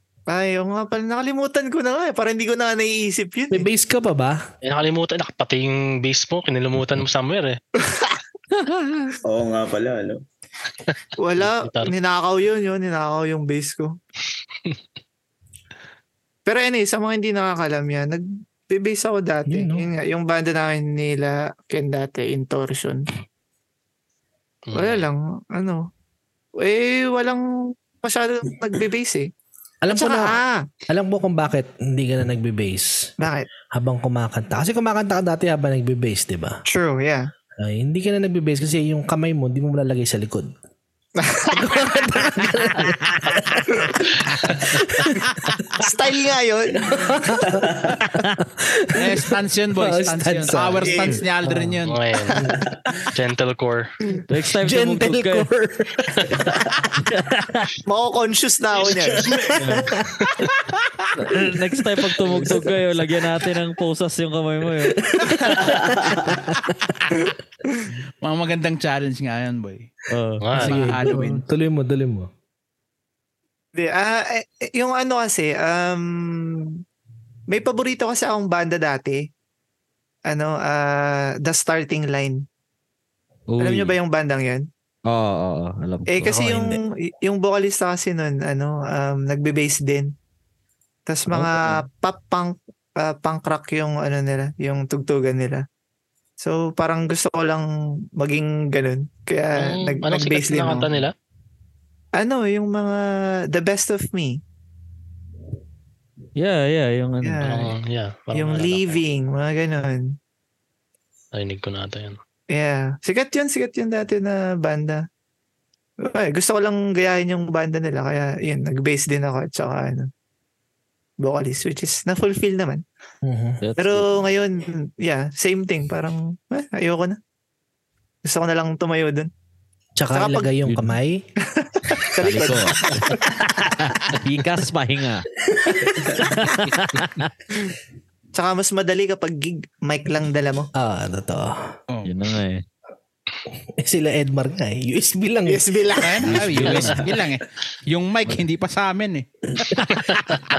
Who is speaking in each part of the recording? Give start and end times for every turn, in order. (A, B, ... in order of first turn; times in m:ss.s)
0:00.3-0:03.7 A
0:03.5-0:04.4 B
0:04.6-0:07.6 C
0:07.8-0:08.2 A
0:09.2-0:10.2 D
0:11.2-0:14.0 A
0:11.4-0:11.9 C
0:16.5-0:23.1 A
0:19.5-0:19.9 B
0:24.7-0:25.1 C
0:24.7-0:25.9 A
0:26.6-0:29.3 A
0:29.8-0:33.1 B
0:29.9-0:30.7 A
0:33.2-0:33.5 A
0:33.7-0:36.6 B
0:36.7-0:37.3 A
0:37.6-0:40.5 B
0:41.2-0:41.9 A
0:41.5-0:45.8 B
0:45.8-0:47.1 A
0:46.8-0:51.8 B
0:47.4-0:48.0 D
0:49.0-0:52.0 E
0:50.8-0:51.2 A
0:51.8-0:52.4 C
0:53.2-0:53.9 C
0:54.3-0:55.5 F
0:54.6-0:56.5 B
0:56.4-0:56.8 D
0:57.0-0:57.8 F
0:57.9-0:59.3 A
0:59.5-1:00.0 F
0:59.7-1:00.3 B
1:01.2-1:05.9 F
1:02.2-1:02.7 B
1:05.0-1:07.0 B
1:07.2-1:07.9 A
1:08.2-1:09.9 E
1:10.1-1:10.4 F
1:10.4-1:11.0 C
1:10.6-1:11.4 E
1:10.6-1:12.3 B
1:13.8-1:16.8 A
1:17.5-1:19.3 A
1:20.3-1:22.4 A
1:23.5-1:24.0 F
1:23.6-1:24.7 A
1:25.1-1:26.8 F
1:26.1-1:30.1 A
1:31.1-1:35.6 A
1:31.3-1:31.8 F
1:36.4-1:40.9 A
1:39.6-1:41.1 C
1:42.2-1:44.4 A
1:46.4-1:47.4 F
1:47.2-1:47.7 A
1:47.4-1:49.0 C
1:48.3-1:50.2 A
1:51.3-1:52.2 C
1:52.5-1:55.1 A
1:56.0-2:00.1 A
2:01.2-2:02.8 A
2:03.2-2:03.6 B
2:03.6-2:04.3 F
2:03.8-2:07.2 A
2:08.2-2:09.3 A
2:10.0-2:11.2 B
2:10.1-2:10.5 A
2:10.7-2:11.0 F
2:11.5-2:13.2 A
2:12.2-2:15.3 F
2:16.2-2:17.3 F
2:18.3-2:20.7 A
2:20.8-2:21.7 B
2:22.0-2:22.6 F
2:23.5-2:25.7 B
2:25.5-2:26.4 A
2:26.0-2:29.7 E
2:26.3-2:27.1 F